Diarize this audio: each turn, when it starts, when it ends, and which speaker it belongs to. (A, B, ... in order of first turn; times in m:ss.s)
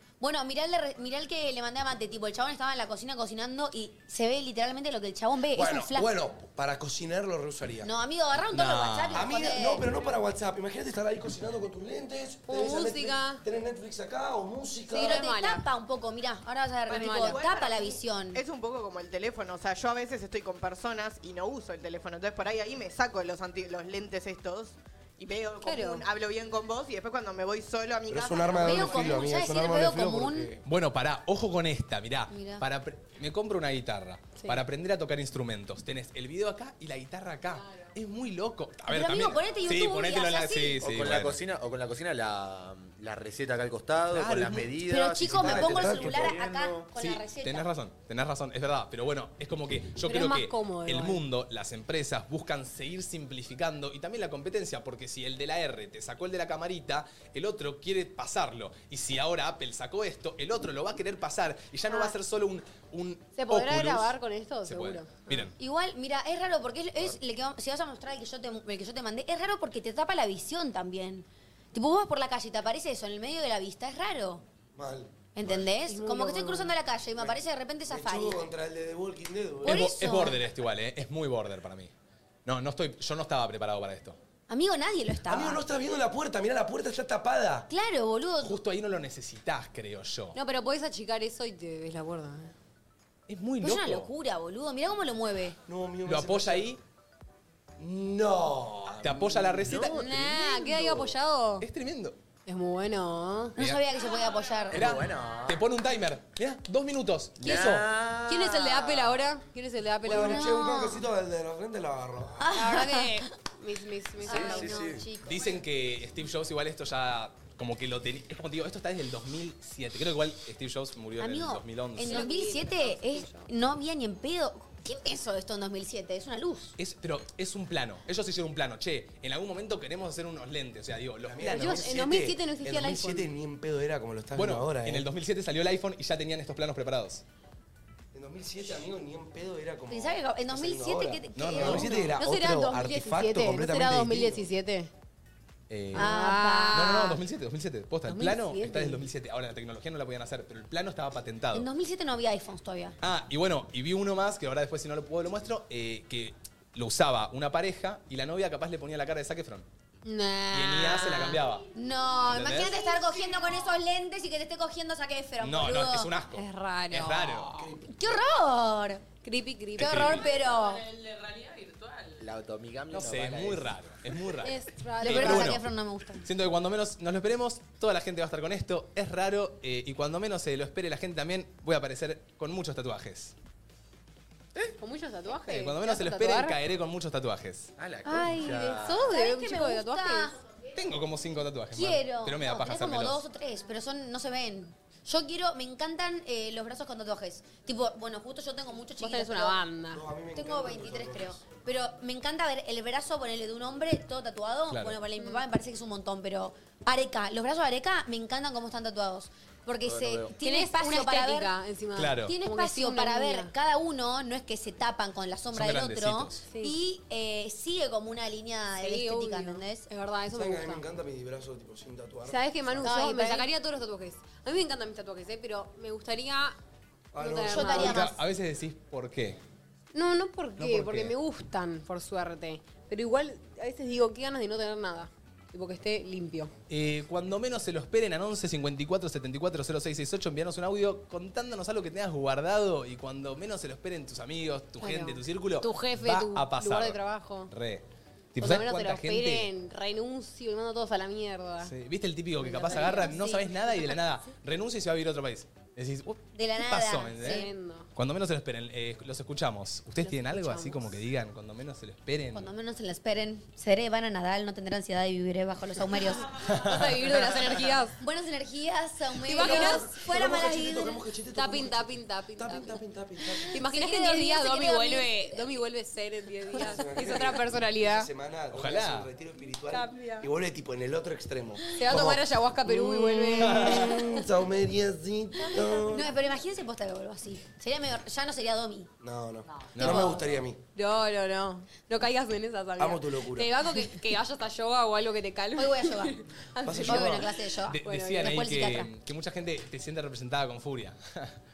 0:00.2-0:06.1 A
0:05.5-0:07.9 B
0:07.8-0:09.9 A
0:08.5-0:09.3 C
0:09.1-0:15.2 B
0:12.5-0:13.4 D
0:14.9-0:15.6 D
0:15.0-0:18.4 A
0:16.9-0:17.4 D
0:16.9-0:29.2 E
0:25.6-0:26.0 D
0:28.1-0:30.6 B
0:28.6-0:30.5 A
0:30.6-0:41.4 C
0:32.3-0:32.6 A
0:37.6-0:37.9 D
0:38.9-0:40.8 A
0:40.8-0:46.9 F
0:44.1-0:44.7 C
0:44.9-0:47.7 A
0:45.4-0:46.4 B
0:47.0-1:05.5 C
0:50.0-0:51.2 D
1:03.4-1:05.5 D
1:05.6-1:14.4 A
1:14.8-1:15.5 B
1:15.4-1:18.5 A
1:15.9-1:16.7 D
1:17.2-1:19.8 B
1:19.6-1:20.4 A
1:19.6-1:21.9 C
1:22.4-1:24.2 C
1:24.5-1:25.6 A
1:25.3-1:27.7 B
1:27.7-1:28.6 A
1:28.4-1:30.4 C
1:30.4-1:32.5 D
1:33.3-1:34.1 C
1:33.6-1:35.6 A
1:35.7-1:36.7 B
1:36.1-1:36.8 C
1:37.8-1:39.7 B
1:39.0-1:40.8 C
1:39.5-1:40.1 F
1:39.9-1:41.7 D
1:41.6-1:42.2 C
1:42.5-1:43.5 D
1:43.6-1:45.0 A
1:43.6-1:43.8 C
1:44.7-1:45.6 F
1:44.7-1:47.9 C
1:47.4-1:49.2 F
1:48.3-1:50.5 D
1:50.0-1:52.5 B
1:50.1-1:51.0 A
1:52.4-1:53.2 A
1:52.5-1:54.8 D
1:54.2-1:55.6 A
1:54.3-1:55.1 F
1:55.2-2:02.3 C
2:01.2-2:06.8 A
2:02.0-2:03.5 D
2:06.8-2:11.9 C
2:11.2-2:15.1 B
2:11.4-2:13.3 D
2:14.3-2:17.2 C
2:18.1-2:24.5 B
2:19.9-2:22.0 A
2:21.4-2:22.1 C
2:22.2-2:24.9 D
2:25.7-2:26.1 C
2:25.9-2:27.2 D
2:26.0-2:27.1 A
2:26.7-2:31.7 C
2:28.1-2:29.0 D
2:31.5-2:33.0 A
2:33.0-2:39.7 C
2:40.0-2:41.4 D
2:40.5-2:41.7 C
2:41.8-2:46.1 A
2:42.2-2:42.8 C
2:45.4-2:47.5 C
2:46.4-2:47.8 D
2:47.6-2:47.8 B
2:47.9-2:49.0 A
2:49.2-2:50.1 D
2:49.8-2:50.8 A
2:49.8-2:50.3 C
2:50.3-2:52.2 G
2:52.2-2:53.8 F
2:52.9-2:55.6 C
2:54.4-2:55.6 D
2:55.0-2:56.3 A
2:56.2-3:03.3 C
3:04.8-3:06.6 D
3:05.3-3:07.7 C
3:07.8-3:09.1 F
3:08.0-3:10.4 D
3:09.1-3:10.4 A
3:10.8-3:13.2 C
3:11.7-3:19.6 A
3:19.0-3:20.0 D
3:19.9-3:21.4 B
3:20.3-3:31.5 A
3:24.7-3:25.0 C
3:25.2-3:25.4 D
3:29.8-3:30.3 F
3:30.4-3:33.5 D
3:32.0-3:32.3 C
3:32.3-3:39.9 A
3:35.5-3:36.4 C
3:36.5-3:36.8 D
3:38.8-3:40.9 D
3:40.3-3:42.9 B
3:42.3-3:46.6 D
3:42.8-3:43.5 A
3:47.1-3:48.0 B
3:47.2-3:48.1 D
3:47.5-3:48.1 A
3:47.8-3:49.4 C
3:49.9-3:56.5 D
3:50.6-3:51.2 C
3:56.7-4:07.8 C
4:04.8-4:07.5 D
4:08.4-4:09.5 C
4:08.4-4:11.7 D
4:11.6-4:22.5 C
4:12.4-4:13.3 D
4:12.7-4:13.5 A
4:16.4-4:17.5 A
4:17.2-4:17.9 D
4:20.0-4:20.9 D
4:22.3-4:26.3 A
4:26.5-4:27.6 C
4:26.6-4:28.0 D
4:28.0-4:31.0 A
4:29.2-4:29.9 D
4:29.3-4:33.6 B
4:31.3-4:32.8 D
4:33.5-4:38.1 D
4:33.6-4:35.5 A
4:36.6-4:46.1 B
4:38.5-4:39.1 C
4:39.7-4:40.3 D
4:41.8-4:44.2 D
4:43.4-4:44.0 C
4:45.6-4:48.9 A
4:49.0-4:50.6 B
4:49.8-4:50.3 C
4:50.8-4:57.3 D
4:52.8-4:53.6 B
4:55.6-4:56.2 A
4:56.6-4:57.3 B
4:56.8-4:58.9 A
4:57.7-5:01.3 C
4:57.8-4:58.4 D